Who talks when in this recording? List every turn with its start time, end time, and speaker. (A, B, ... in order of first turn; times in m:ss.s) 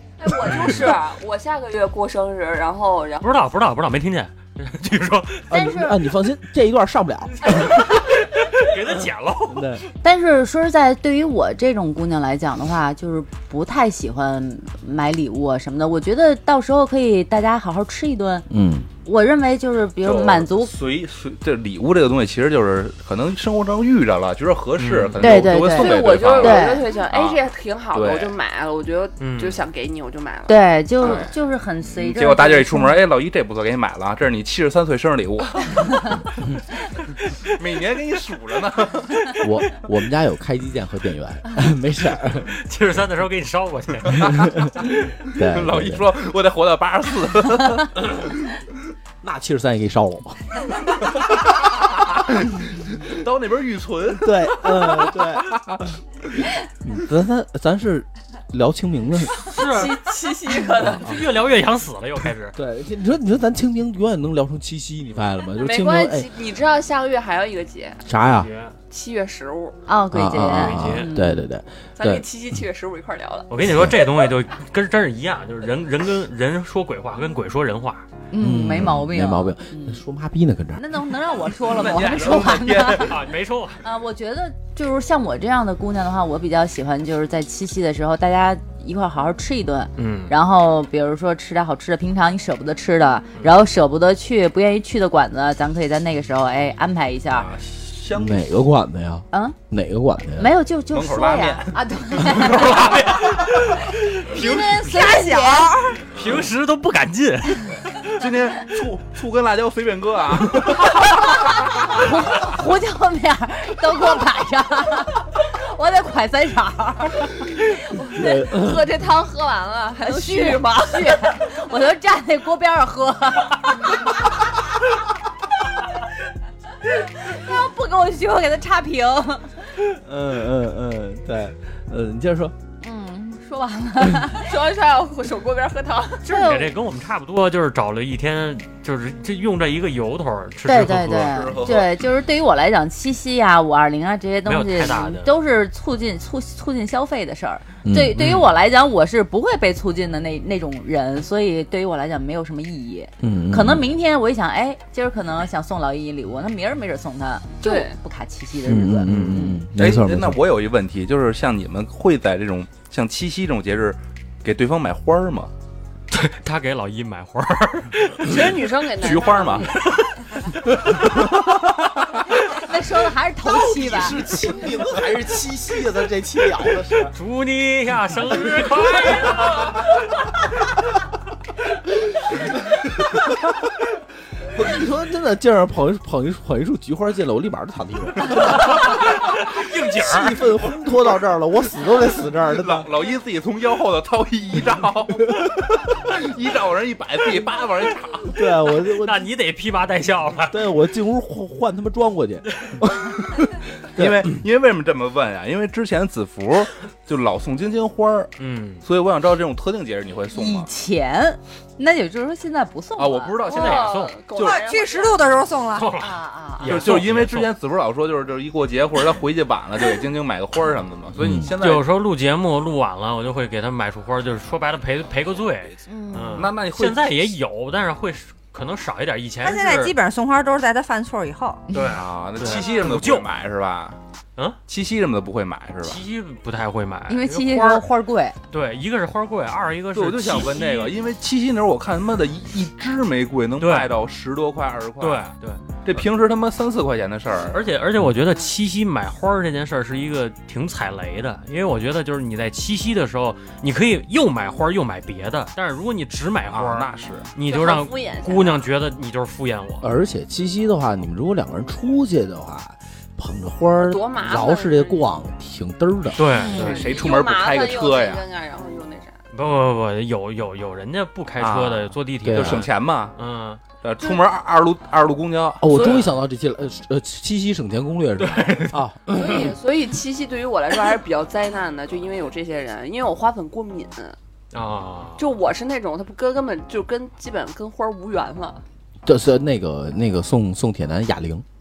0:00.2-0:03.2 A
0:00.6-0:00.9 B
0:03.2-0:05.6 B
0:05.5-0:07.5 C
0:05.5-0:06.0 D
0:07.4-0:09.8 B
0:07.5-0:07.7 A
0:09.5-0:09.8 C
0:10.0-0:18.5 D
0:18.5-0:18.9 C
0:19.0-0:20.7 D
0:20.0-0:27.4 E
0:24.8-0:25.2 B
0:25.2-0:26.9 D
0:25.6-0:31.3 A
0:27.9-0:28.3 E
0:29.2-0:29.6 B
0:30.5-0:33.0 D
0:31.0-0:31.3 E
0:32.0-0:36.0 E
0:37.3-0:39.4 E
0:39.4-0:42.5 C
0:42.5-0:44.6 B
0:44.3-0:44.7 C
0:44.9-0:48.6 E
0:45.3-0:46.0 C
0:49.2-0:50.6 C
0:51.1-0:55.8 E
0:54.1-0:55.5 C
0:56.8-0:59.4 C
0:59.4-1:00.0 B
0:59.4-1:01.1 A
1:00.8-1:02.6 B
1:00.8-1:01.2 C
1:02.5-1:06.3 C
1:05.6-1:08.0 A
1:08.0-1:08.5 C
1:08.2-1:08.7 B
1:08.9-1:09.8 A
1:09.9-1:11.5 D
1:10.1-1:12.2 C
1:10.4-1:11.1 B
1:12.0-1:13.5 A
1:13.5-1:18.1 B
1:13.6-1:13.9 C
1:18.3-1:20.0 D
1:18.4-1:20.8 C
1:20.8-1:23.2 D
1:21.7-1:23.2 E
1:23.0-1:23.8 B
1:23.8-1:37.5 D
1:30.0-1:30.3 B
1:37.3-1:38.5 E
1:38.1-1:40.5 C
1:39.3-1:39.6 D
1:40.4-1:45.8 D
1:40.9-1:43.6 E
1:42.6-1:43.6 B
1:44.3-1:44.6 E
1:44.7-1:46.1 F
1:46.1-1:48.2 B
1:48.1-1:52.5 E
1:51.4-1:57.3 D
1:57.9-2:01.2 A
1:58.1-1:59.0 C
2:00.0-2:04.1 D
2:07.0-2:09.6 D
2:09.8-2:12.5 C
2:12.8-2:14.5 D
2:14.4-2:16.2 A
2:16.2-2:21.4 B
2:16.3-2:16.7 D
2:20.6-2:39.6 D
2:21.3-2:22.0 E
2:24.4-2:25.3 B
2:27.8-2:28.2 C
2:28.1-2:28.5 B
2:33.2-2:33.9 C
2:37.6-2:38.0 A
2:38.6-2:40.4 C
2:39.1-2:45.5 E
2:46.1-2:48.5 B
2:48.3-2:49.7 A
2:49.0-2:49.7 E
2:52.4-2:54.2 D
2:53.7-2:57.1 C
2:57.1-2:59.8 B
3:04.5-3:08.9 C
3:08.4-3:10.4 B
3:10.0-3:12.9 C
3:12.6-3:18.4 E
3:18.3-3:19.2 C
3:19.0-3:20.6 B
3:20.5-3:24.3 C
3:23.8-3:28.3 E
3:28.4-3:28.8 B
3:28.8-3:30.7 E
3:30.3-3:33.5 D
3:33.0-3:34.6 E
3:33.5-3:34.2 B
3:33.5-3:35.4 A
3:34.4-3:36.0 F
3:35.7-3:37.5 B
3:36.0-3:37.0 D
3:36.6-3:41.9 E
3:41.2-3:41.5 C
3:41.6-3:49.9 B
3:45.9-3:46.5 D
3:46.4-3:47.0 E
3:49.4-3:51.6 F
3:51.7-3:53.2 B
3:51.9-3:54.0 E
3:54.7-3:56.0 E
3:55.8-3:57.8 B
3:57.1-3:58.4 D
3:58.5-4:00.9 B
3:59.9-4:05.3 E
4:03.6-4:03.9 B
4:05.0-4:06.0 B
4:05.8-4:07.6 E
4:07.5-4:19.9 B
4:16.5-4:17.3 E
4:17.5-4:18.6 A
4:19.8-4:26.3 C
4:23.8-4:25.1 A
4:26.2-4:26.9 B
4:26.3-4:28.2 E
4:26.5-4:29.2 A
4:29.3-4:33.6 B
4:31.4-4:33.1 E
4:32.2-4:32.6 C
4:33.8-4:36.0 E
4:35.6-4:39.5 C
4:35.7-4:36.0 B
4:38.2-4:38.8 B
4:39.1-4:44.2 A
4:44.5-4:45.3 B
4:45.2-4:48.6 A
4:49.0-4:51.4 C